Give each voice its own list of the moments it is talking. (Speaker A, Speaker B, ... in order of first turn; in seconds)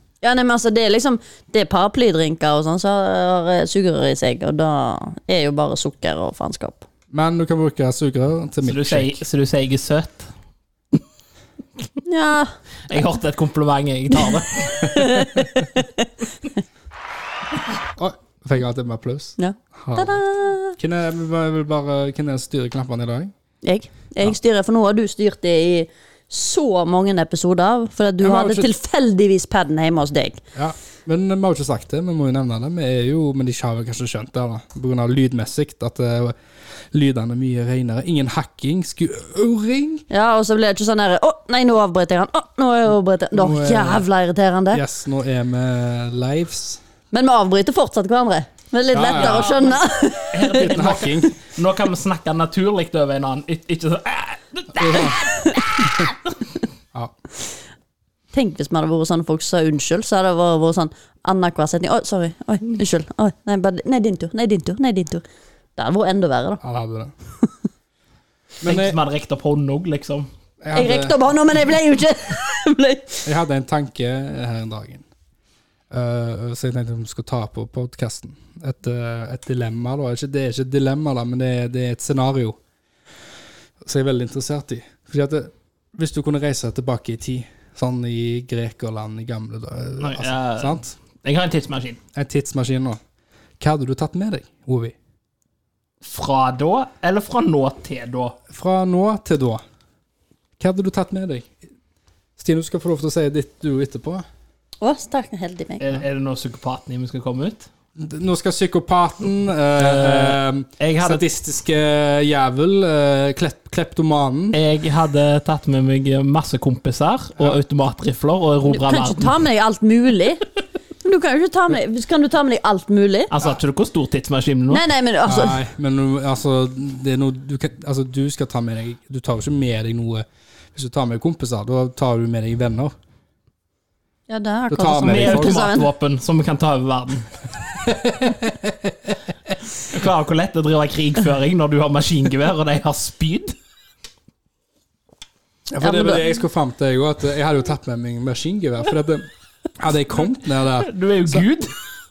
Speaker A: 0.2-6.9, 12.0-12.5, 14.2-16.1, 19.4-20.8, 23.6-30.4, 40.1-44.8, 47.1-50.7, 55.2-55.8, 58.3-65.2, 65.8-66.6, 70.7-73.3, 104.8-105.9, 118.7-120.5, 121.0-123.3, 124.7-125.6, 134.3-135.9, 145.8-146.3
Speaker B: 7.1-9.2, 18.0-20.2, 20.8-23.3, 28.2-28.7, 30.6-36.4, 36.9-40.0, 43.3-44.1, 44.7-46.8, 48.9-49.6, 50.5-51.3, 54.8-55.2, 66.6-67.1, 68.6-69.0, 70.6-71.2, 73.2-75.0, 75.9-82.6, 83.8-91.0, 92.1-93.0, 93.6-95.0, 98.5-99.6, 100.6-101.6, 102.4-104.2, 108.0-114.6, 125.3-132.9, 134.7-135.7, 137.8-139.2, 145.7-149.3, 149.8-151.5
Speaker C: 8.6-10.3, 12.9-15.2, 49.1-49.8, 50.3-56.1, 68.6-70.3, 90.0-92.0, 96.0-98.4, 105.8-107.7, 109.8-111.2, 114.5-119.4, 123.3-124.8, 135.0-137.3, 139.9-143.6, 150.8-151.8